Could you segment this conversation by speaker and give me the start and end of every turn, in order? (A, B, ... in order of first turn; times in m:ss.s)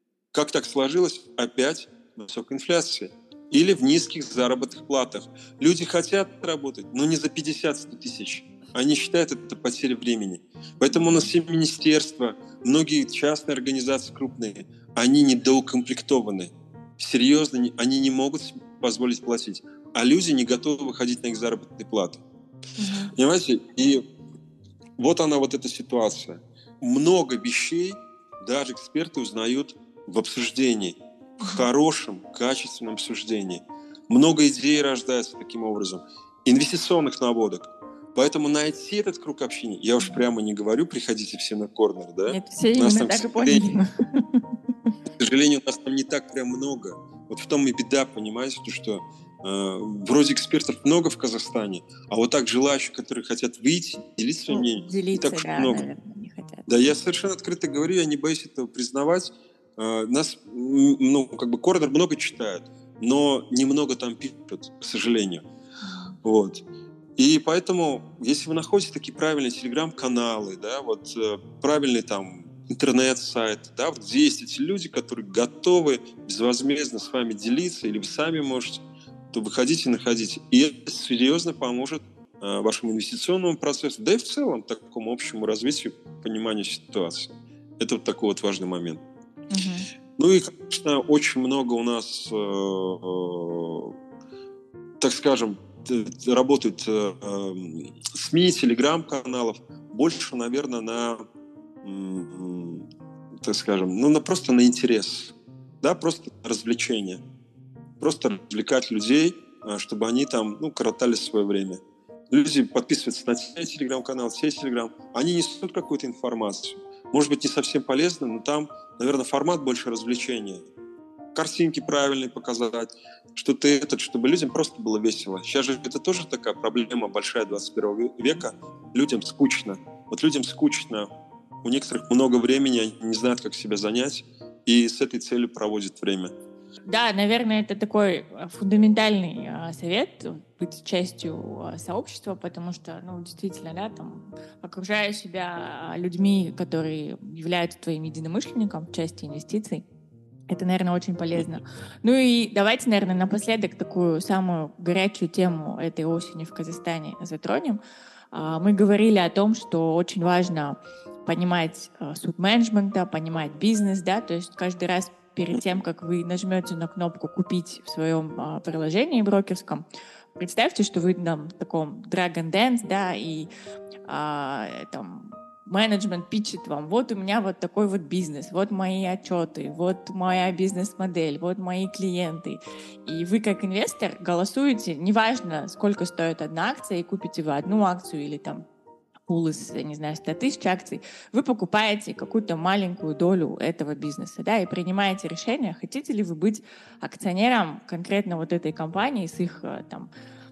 0:00.3-0:22.2 A
0:10.9-0:11.3 B
0:23.2-0:24.0 A
0:25.0-0:43.7 A
0:31.4-0:31.7 B
0:40.0-0:40.2 B
0:42.3-0:44.3 B
0:45.2-0:55.9 A
0:54.5-0:56.7 B
0:56.7-1:05.4 A
1:05.8-1:06.2 B
1:06.2-1:06.6 A
1:07.2-1:18.8 A
1:19.3-1:29.0 A
1:29.5-1:29.9 B
1:30.2-1:33.9 A
1:35.0-1:41.2 A
1:41.8-1:42.9 A
1:43.4-1:47.2 A
1:48.0-2:00.6 A
2:01.4-2:11.1 A
2:11.6-2:16.3 A
2:16.9-2:29.8 B
2:30.5-2:37.8 B
2:38.3-2:49.8 B
2:50.4-2:53.5 B
2:54.1-3:08.6 B
3:09.3-3:20.1 B